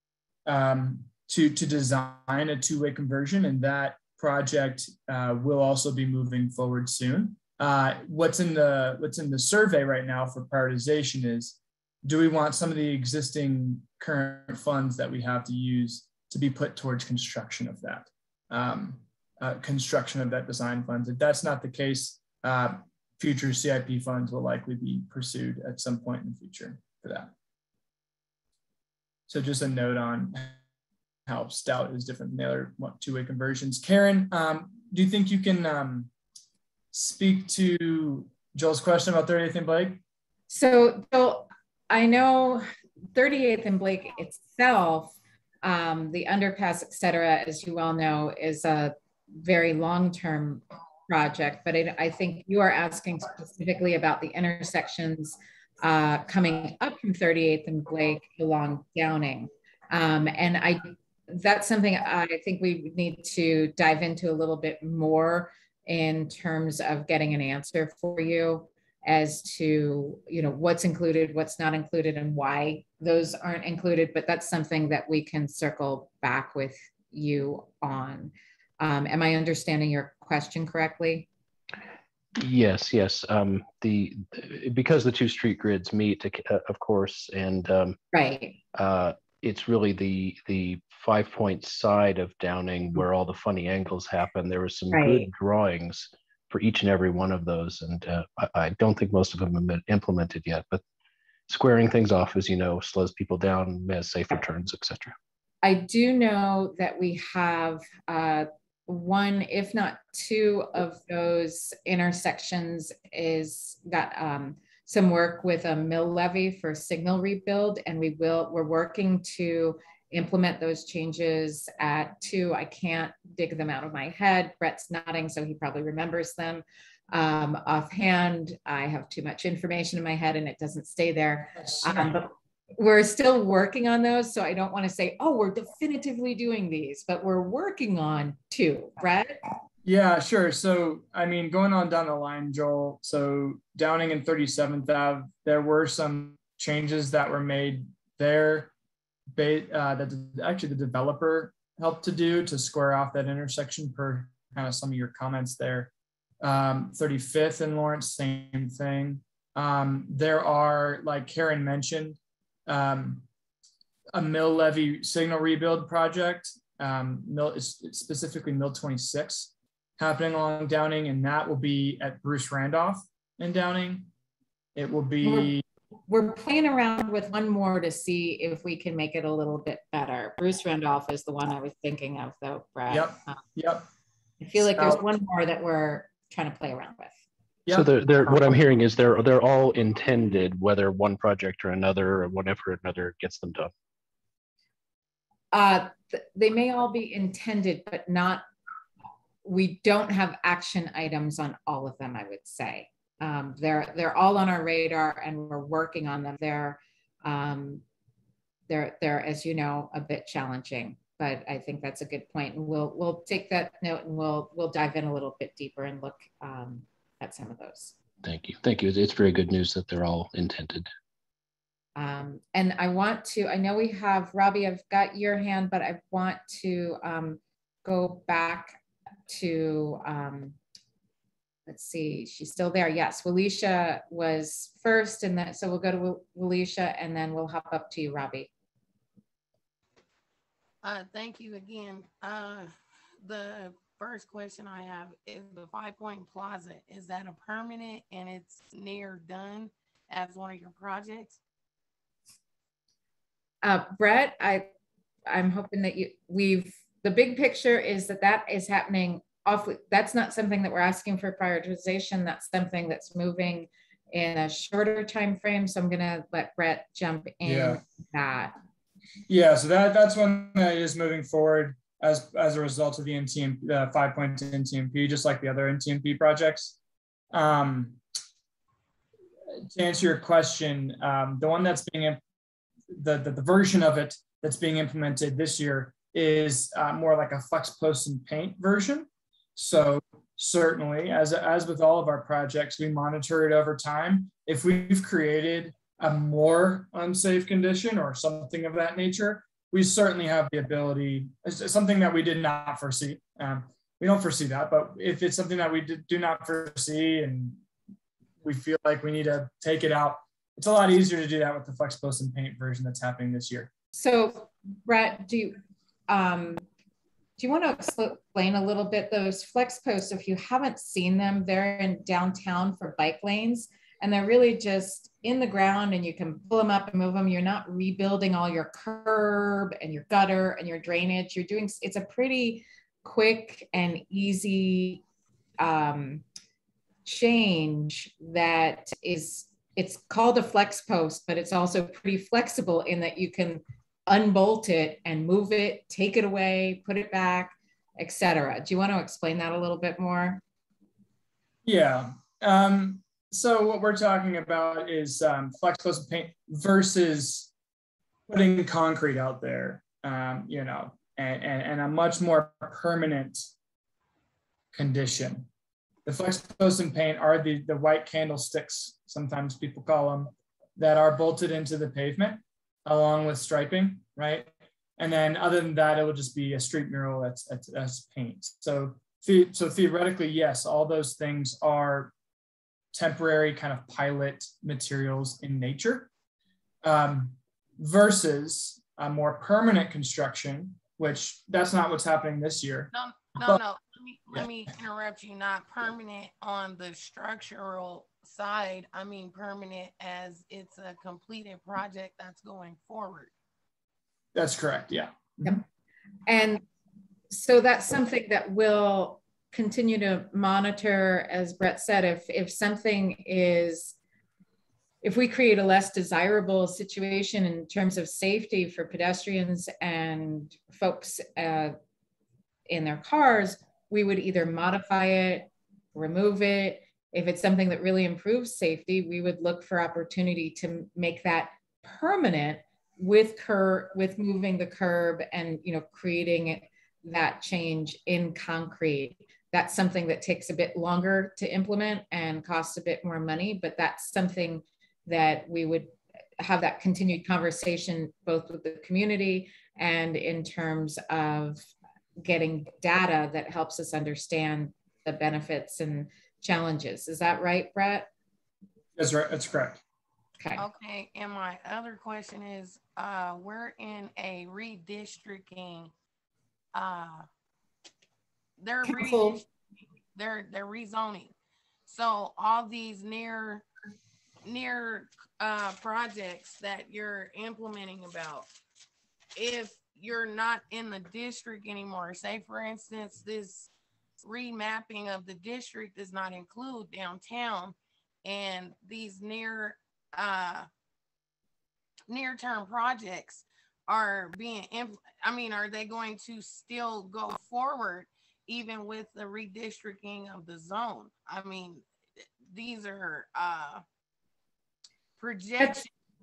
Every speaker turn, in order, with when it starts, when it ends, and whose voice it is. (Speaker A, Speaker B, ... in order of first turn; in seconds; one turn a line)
Speaker A: 0.5-27.3
Speaker A: 29.3-30.6
Speaker A: 31.3-36.1
Speaker A: 36.9-40.0
Speaker B: 40.5-81.3
Speaker C: 82.4-88.0
Speaker B: 88.1-88.6
Speaker C: 88.7-100.8
Speaker B: 94.9-95.3
Speaker C: 101.5-105.1
Speaker B: 105.6-139.4
Speaker A: 131.6-132.2
Speaker A: 139.8-148.7
Speaker A: 149.3-163.2
Speaker A: 164.1-174.1
Speaker A: 174.7-175.6
Speaker B: 175.2-175.5
Speaker B: 176.1-183.4
Speaker A: 182.9-183.9
Speaker B: 184.4-187.1
Speaker A: 184.7-185.0
Speaker A: 187.7-188.6
Speaker C: 187.7-193.7
Speaker B: 195.5-198.4
Speaker B: 199.4-207.8
Speaker B: 208.7-217.9
Speaker C: 218.2-220.9
Speaker B: 221.9-230.6
Speaker B: 231.7-238.5
Speaker D: 240.8-251.4
Speaker B: 253.6-254.7
Speaker B: 255.2-268.5
Speaker A: 267.4-267.8
Speaker A: 269.3-276.8
Speaker A: 277.3-278.0
Speaker A: 279.7-282.2
Speaker A: 282.9-307.6
Speaker A: 308.4-313.7
Speaker B: 313.9-315.6
Speaker B: 316.1-316.6
Speaker B: 317.4-335.0
Speaker B: 335.6-336.2
Speaker B: 337.0-350.4
Speaker A: 351.6-357.5
Speaker A: 358.3-363.5
Speaker A: 364.7-365.5
Speaker A: 366.1-382.1
Speaker A: 382.9-386.1
Speaker A: 386.8-393.6
Speaker D: 392.9-403.3
Speaker A: 404.3-405.6
Speaker B: 406.3-406.6
Speaker B: 407.3-414.0
Speaker B: 415.0-421.7
Speaker B: 422.7-451.7
Speaker B: 452.2-458.1
Speaker A: 458.9-459.8
Speaker D: 460.6-465.9
Speaker D: 466.7-467.3
Speaker D: 468.6-469.5
Speaker B: 468.8-469.4
Speaker D: 470.1-471.3
Speaker D: 471.9-473.6
Speaker D: 474.4-478.5
Speaker D: 479.4-483.7
Speaker D: 484.2-490.7
Speaker D: 492.1-501.8
Speaker D: 502.5-503.8
Speaker D: 505.2-505.9